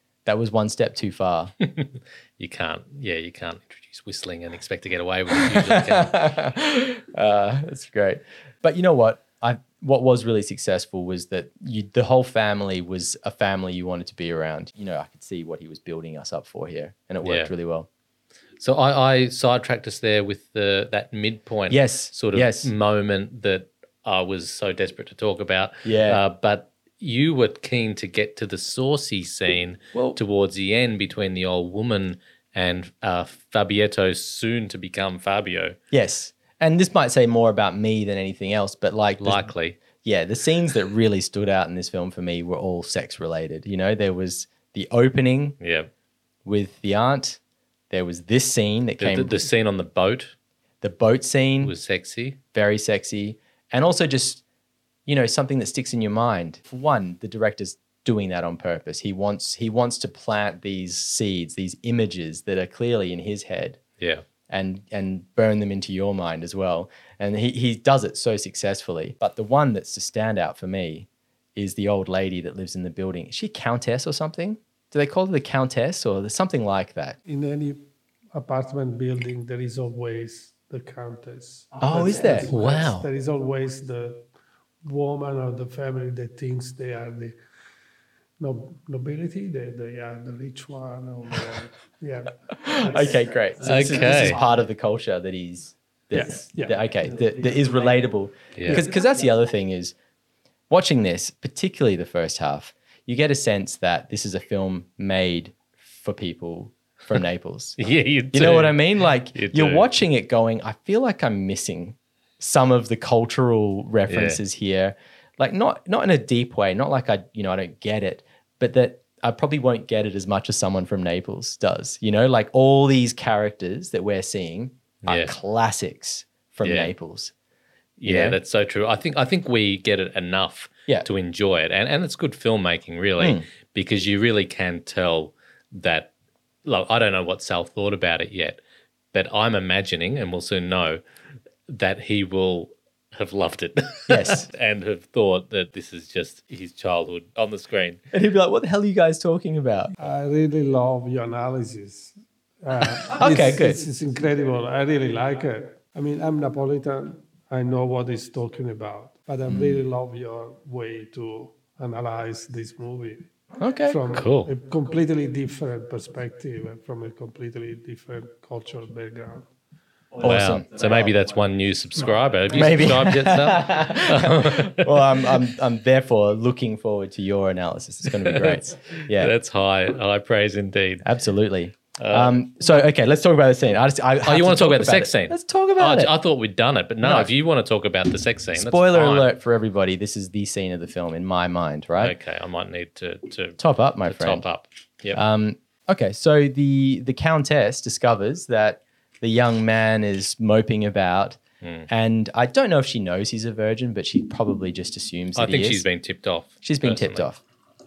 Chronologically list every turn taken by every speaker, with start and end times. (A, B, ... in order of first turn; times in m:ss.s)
0:00.2-0:01.5 A
0:01.6-0:06.2 B
0:05.3-0:17.9 A
0:17.2-0:17.5 B
0:18.6-0:35.8 B
0:21.7-0:22.7 A
0:25.8-0:26.2 A
0:35.9-0:45.6 A
0:39.2-0:39.8 B
0:45.6-0:45.9 B
0:46.4-0:47.4 A
0:47.9-0:49.4 A
0:49.0-0:50.3 B
0:50.8-0:51.7 A
0:51.6-0:52.4 B
0:52.5-0:54.4 A
0:55.0-1:03.8 A
1:04.5-1:17.2 A
1:17.3-1:17.8 C
1:18.3-1:24.2 C
1:21.8-1:22.5 A
1:22.5-1:23.0 B
1:24.8-1:27.3 C
1:28.4-1:34.4 C
1:32.6-1:39.9 A
1:33.6-1:34.4 B
1:36.1-1:36.8 C
1:38.5-1:38.8 B
1:40.7-1:47.8 A
1:47.8-1:49.9 B
1:48.3-2:07.3 A
1:54.1-1:54.4 B
2:05.0-2:05.3 B
2:06.6-2:06.9 B
2:08.0-2:16.1 B
2:08.0-2:08.4 A
2:13.2-2:13.4 A
2:16.6-2:18.6 B
2:19.1-2:21.0 B
2:21.7-2:28.0 B
2:24.1-2:24.5 A
2:28.1-2:29.9 A
2:30.0-2:43.2 C
2:33.1-2:33.8 A
2:39.5-2:39.8 A
2:43.6-2:44.0 A
2:43.8-2:49.4 C
2:44.1-2:44.5 B
2:50.2-2:51.1 A
2:50.2-2:55.3 B
2:52.5-2:59.3 A
2:58.2-3:01.1 B
3:01.0-3:06.1 A
3:02.0-3:02.3 B
3:04.2-3:09.3 B
3:07.0-3:07.3 A
3:08.5-3:12.1 A
3:12.0-3:15.2 B
3:13.6-3:14.4 A
3:15.1-3:25.8 A
3:21.6-3:21.9 B
3:25.4-3:27.3 B
3:26.6-3:27.4 A